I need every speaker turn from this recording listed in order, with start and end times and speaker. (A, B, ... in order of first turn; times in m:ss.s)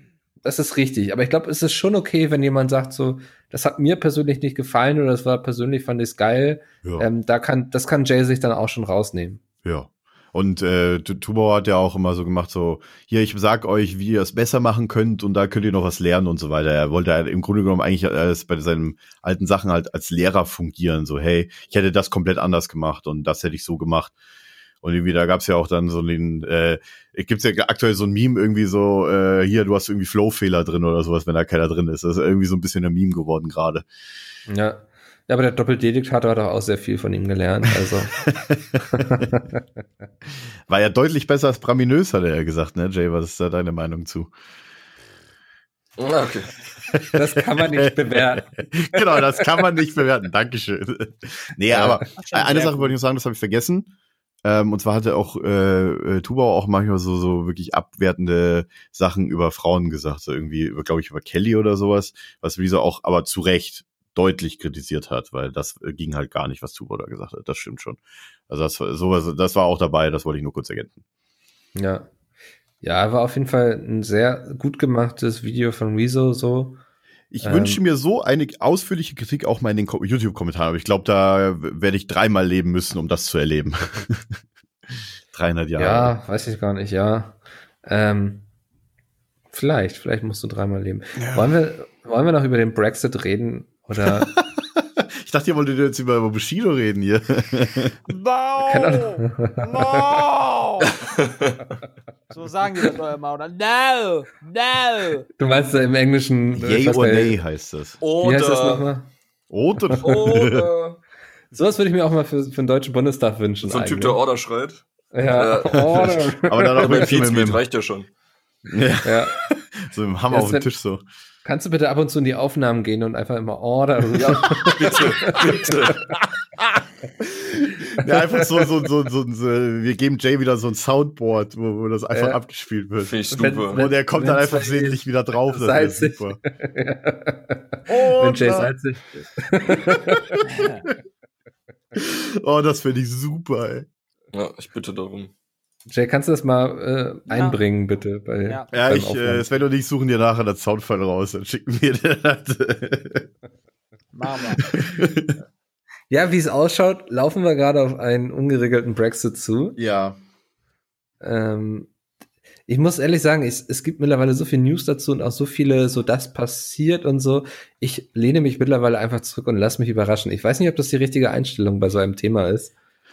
0:00.4-0:09.4 A
0:09.6-0:24.1 B
0:24.8-0:33.8 B
0:34.5-0:38.2 A
0:38.1-0:38.8 B
0:39.0-0:39.6 A
0:40.7-0:44.3 B
0:46.0-0:46.5 C
0:46.9-0:53.9 B
0:47.1-0:48.5 A
0:51.7-0:52.1 A
0:52.2-0:52.9 D
0:54.4-1:11.0 B
1:11.7-1:12.1 A
1:12.8-1:16.8 A
1:17.3-1:24.4 B
1:17.4-1:17.8 A
1:24.9-1:26.1 B
1:25.8-1:28.4 A
1:29.5-1:34.3 A
1:31.2-1:31.5 B
1:34.0-1:38.0 B
1:38.1-1:40.9 D
1:38.7-1:40.0 A
1:42.3-1:45.2 D
1:45.4-1:47.4 A
1:46.6-1:48.0 B
1:48.0-1:48.9 C
1:48.2-1:49.1 A
1:49.5-1:50.7 B
1:50.0-1:51.0 C
1:51.5-1:54.2 A
1:53.6-1:58.1 C
1:55.1-1:57.1 A
1:55.9-1:57.6 B
1:58.6-2:01.0 B
1:59.0-1:59.4 A
2:00.3-2:00.7 A
2:01.4-2:05.9 A
2:04.1-2:06.0 C
2:07.2-2:16.4 B
2:12.1-2:12.4 A
2:13.0-2:13.8 C
2:13.3-2:20.3 A
2:17.9-2:18.7 B
2:20.2-2:20.4 B
2:20.4-2:20.8 D
2:21.9-2:23.9 B
2:24.3-2:25.3 C
2:25.9-2:29.5 A
2:27.3-2:27.6 D
2:28.7-2:33.3 B
2:34.1-2:34.7 D
2:34.6-2:35.3 B
2:36.1-2:39.8 A
2:39.8-2:40.2 B
2:41.2-2:41.9 A
2:42.7-2:52.7 A